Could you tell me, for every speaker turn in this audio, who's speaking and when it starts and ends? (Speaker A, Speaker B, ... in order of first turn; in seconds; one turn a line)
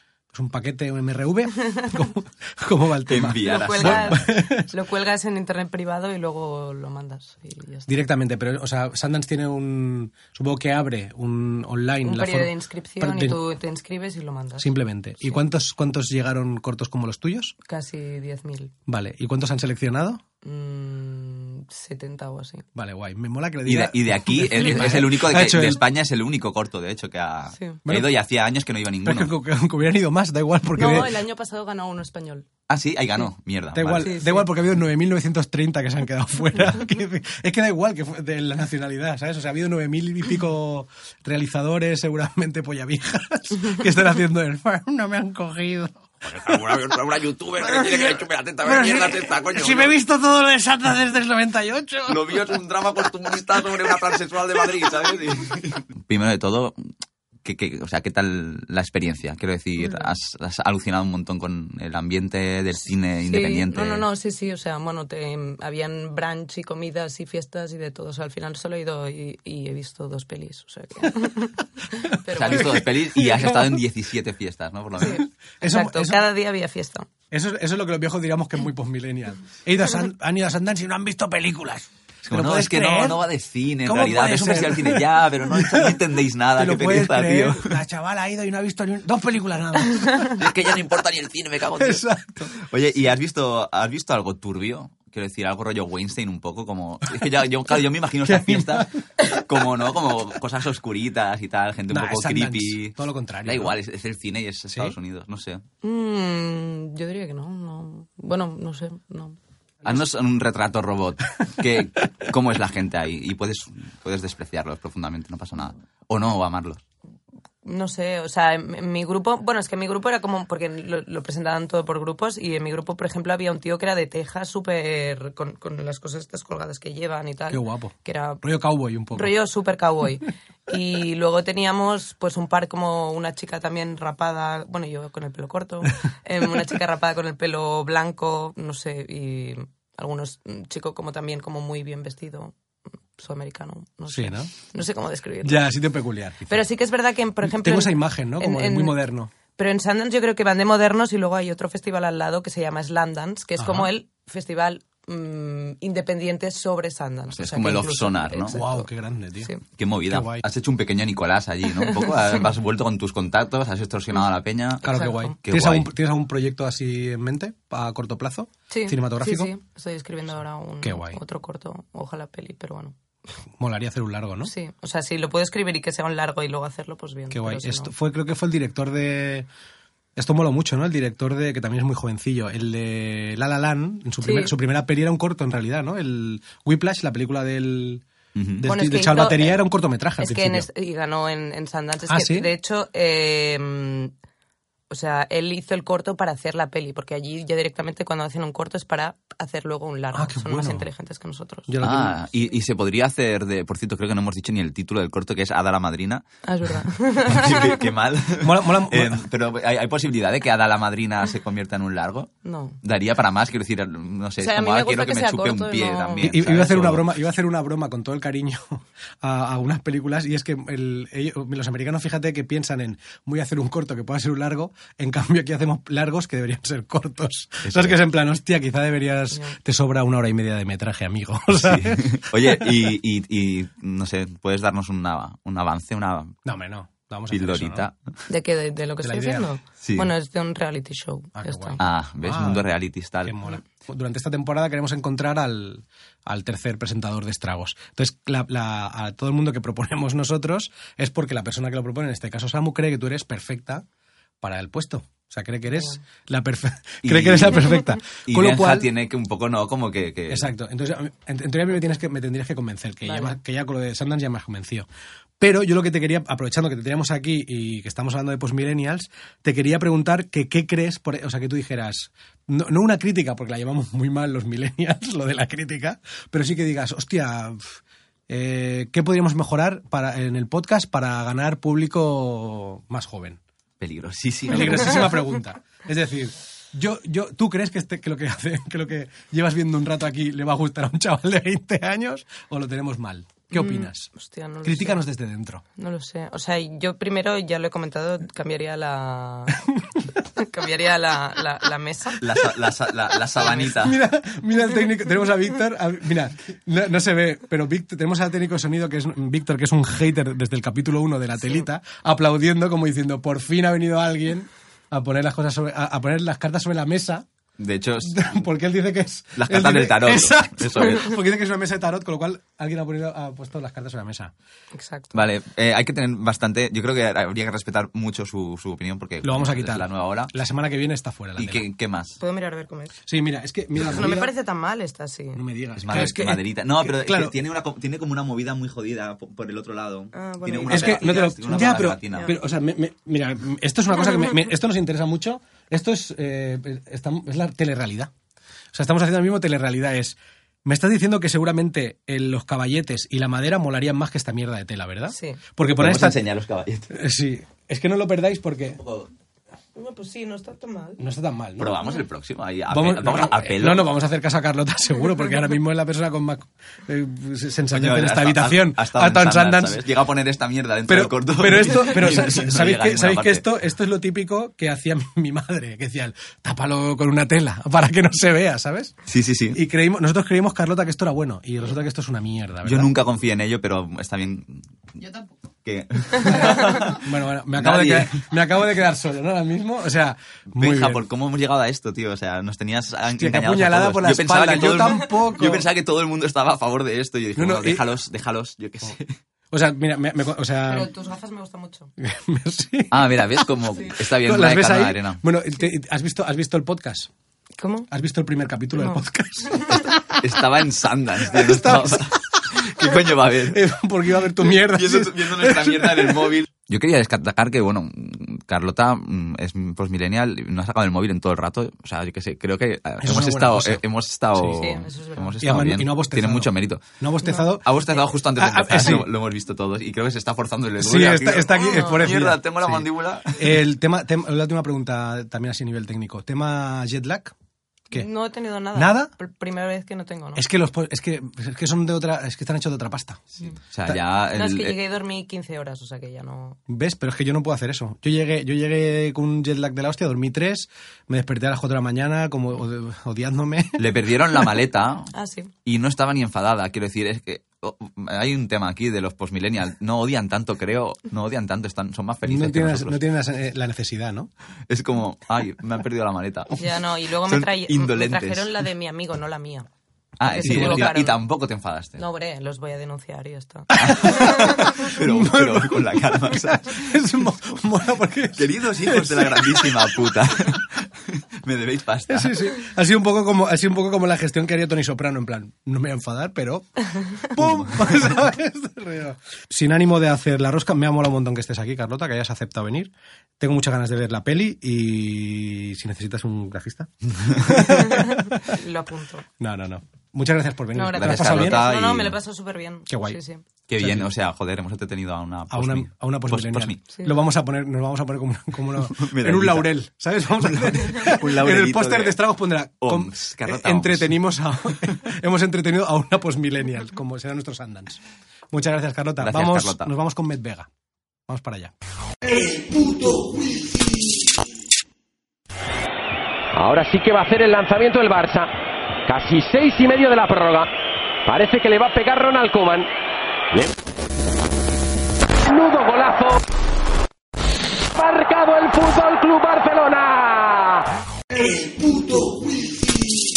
Speaker A: 0.3-4.7
Speaker B: 3.1-4.2
Speaker C: 3.4-7.9
Speaker A: 7.9-13.4
Speaker C: 12.0-14.7
Speaker A: 14.6-17.5
Speaker C: 17.7-18.7
Speaker A: 18.9-20.2
Speaker C: 20.4-22.6
Speaker A: 22.8-25.8
Speaker B: 23.6-29.3
Speaker C: 24.6-24.9
Speaker C: 27.5-27.8
Speaker A: 27.9-28.1
Speaker A: 29.0-31.1
Speaker C: 30.7-32.5
Speaker B: 32.7-34.1
Speaker A: 33.7-46.6
Speaker C: 34.0-34.5
Speaker B: 46.2-49.9
Speaker A: 47.6-52.5
Speaker B: 52.0-56.8
Speaker A: 53.8-54.7
Speaker B: 57.4-64.1
Speaker C: 63.2-72.8
Speaker B: 72.3-75.2
Speaker A: 72.5-73.6
Speaker C: 75.0-77.1
Speaker A: 75.6-76.2
Speaker A: 77.3-83.2
Speaker B: 82.2-87.8
Speaker A: 83.8-86.0
Speaker A: 86.5-90.3
Speaker B: 90.4-92.0
Speaker A: 91.8-92.5
Speaker B: 92.5-105.6
Speaker A: 98.2-98.9
Speaker A: 101.9-103.7
Speaker C: 105.8-109.4
Speaker B: 109.8-116.8
Speaker C: 117.6-128.4
Speaker A: 127.5-129.3
Speaker C: 129.1-142.5
Speaker C: 143.2-145.6
Speaker A: 144.1-144.5
Speaker A: 145.4-146.6
Speaker C: 146.5-158.9
Speaker A: 147.4-149.3
Speaker A: 153.6-153.9
Speaker B: 157.3-158.6
Speaker A: 158.5-159.5
Speaker B: 159.8-164.9
Speaker A: 160.1-160.4
Speaker C: 161.8-162.4
Speaker A: 164.8-169.5
Speaker C: 164.8-165.3
Speaker B: 165.4-165.9
Speaker C: 168.7-172.9
Speaker A: 170.8-171.2
Speaker A: 173.6-174.5
Speaker C: 174.4-177.9
Speaker A: 177.3-179.5
Speaker A: 180.2-188.0
Speaker C: 184.2-184.5
Speaker B: 188.3-188.6
Speaker A: 188.6-190.7
Speaker C: 188.6-189.6
Speaker C: 190.2-194.1
Speaker A: 192.1-192.5
Speaker C: 194.9-201.8
Speaker A: 200.1-200.9
Speaker A: 201.7-202.2
Speaker B: 201.8-206.2
Speaker C: 206.4-207.8
Speaker B: 207.3-217.1
Speaker A: 208.4-209.2
Speaker C: 212.4-212.8
Speaker C: 214.4-216.3
Speaker A: 216.2-232.7
Speaker B: 227.6-228.0
Speaker B: 231.5-236.3
Speaker A: 236.4-237.8
Speaker B: 237.3-238.2
Speaker C: 238.3-241.8
Speaker A: 239.0-239.5
Speaker B: 239.8-240.1
Speaker A: 241.3-242.7
Speaker B: 241.8-243.3
Speaker A: 243.2-253.8
Speaker A: 254.4-258.9
Speaker C: 255.7-256.0
Speaker B: 257.0-257.6
Speaker B: 258.2-260.5
Speaker A: 260.3-264.9
Speaker C: 263.0-263.4
Speaker A: 265.4-283.4
Speaker B: 283.8-285.1
Speaker A: 284.5-294.1
Speaker C: 293.5-295.0
Speaker A: 294.6-295.6
Speaker C: 295.8-299.6
Speaker C: 300.3-302.2
Speaker B: 302.2-304.0
Speaker A: 303.6-317.2
Speaker B: 317.6-318.3
Speaker A: 318.0-324.3
Speaker B: 319.4-321.1
Speaker C: 324.7-325.2
Speaker B: 325.1-330.3
Speaker A: 329.2-331.6
Speaker B: 331.4-332.2
Speaker C: 332.2-332.9
Speaker A: 333.1-334.3
Speaker C: 333.8-335.4
Speaker A: 335.3-337.3
Speaker B: 335.8-342.3
Speaker C: 340.1-342.4
Speaker A: 340.7-348.1
Speaker A: 348.7-356.2
Speaker C: 355.1-355.4
Speaker B: 355.8-356.9
Speaker A: 356.9-358.8
Speaker B: 358.8-359.1
Speaker C: 359.7-361.0
Speaker A: 361.0-361.7
Speaker B: 361.6-363.9
Speaker A: 362.7-369.8
Speaker B: 367.7-373.4
Speaker A: 370.9-378.9
Speaker B: 379.1-379.6
Speaker A: 379.5-382.9
Speaker B: 382.6-385.0
Speaker B: 385.6-387.0
Speaker A: 386.2-391.0
Speaker B: 387.6-388.2
Speaker B: 390.5-399.1
Speaker A: 393.1-395.6
Speaker A: 397.4-397.8
Speaker A: 399.5-400.9
Speaker C: 400.6-401.9
Speaker A: 402.0-403.0
Speaker B: 402.9-405.2
Speaker A: 404.1-407.1
Speaker C: 407.6-407.9
Speaker A: 407.9-409.9
Speaker C: 408.8-409.0
Speaker B: 410.2-413.6
Speaker A: 411.3-412.9
Speaker A: 413.5-416.3
Speaker B: 414.6-426.8
Speaker A: 423.0-423.8
Speaker C: 424.4-425.4
Speaker A: 425.4-427.7
Speaker B: 427.6-433.6
Speaker A: 428.4-429.1
Speaker A: 430.8-437.3
Speaker C: 431.6-432.1
Speaker C: 437.9-440.4
Speaker A: 438.7-439.1
Speaker A: 440.3-443.3
Speaker B: 443.5-444.7
Speaker C: 444.3-446.6
Speaker A: 446.7-453.8
Speaker B: 453.8-455.1
Speaker C: 455.1-455.5
Speaker B: 455.6-463.0
Speaker A: 462.2-464.3
Speaker B: 464.7-466.7
Speaker C: 466.6-469.7
Speaker B: 467.2-468.5
Speaker B: 470.2-472.0
Speaker C: 470.3-471.2
Speaker A: 470.4-470.9
Speaker C: 472.0-474.7
Speaker A: 473.7-479.9
Speaker B: 473.8-477.0
Speaker B: 478.4-482.4
Speaker A: 482.1-498.5
Speaker B: 497.1-497.7
Speaker C: 497.9-499.2
Speaker A: 499.4-501.6
Speaker C: 500.7-503.4
Speaker B: 501.0-502.1
Speaker A: 502.9-503.2
Speaker B: 503.7-506.8
Speaker A: 503.8-504.1
Speaker A: 505.5-518.0
Speaker B: 508.9-509.7
Speaker B: 510.4-512.2
Speaker B: 512.8-514.1
Speaker A: 518.5-520.7
Speaker B: 519.2-519.9
Speaker A: 521.3-521.7
Speaker A: 522.2-523.9
Speaker D: 526.5-528.5
Speaker D: 529.1-530.7
Speaker D: 531.2-532.9
Speaker D: 535.5-536.4
Speaker D: 537.9-540.8
Speaker A: 541.4-542.5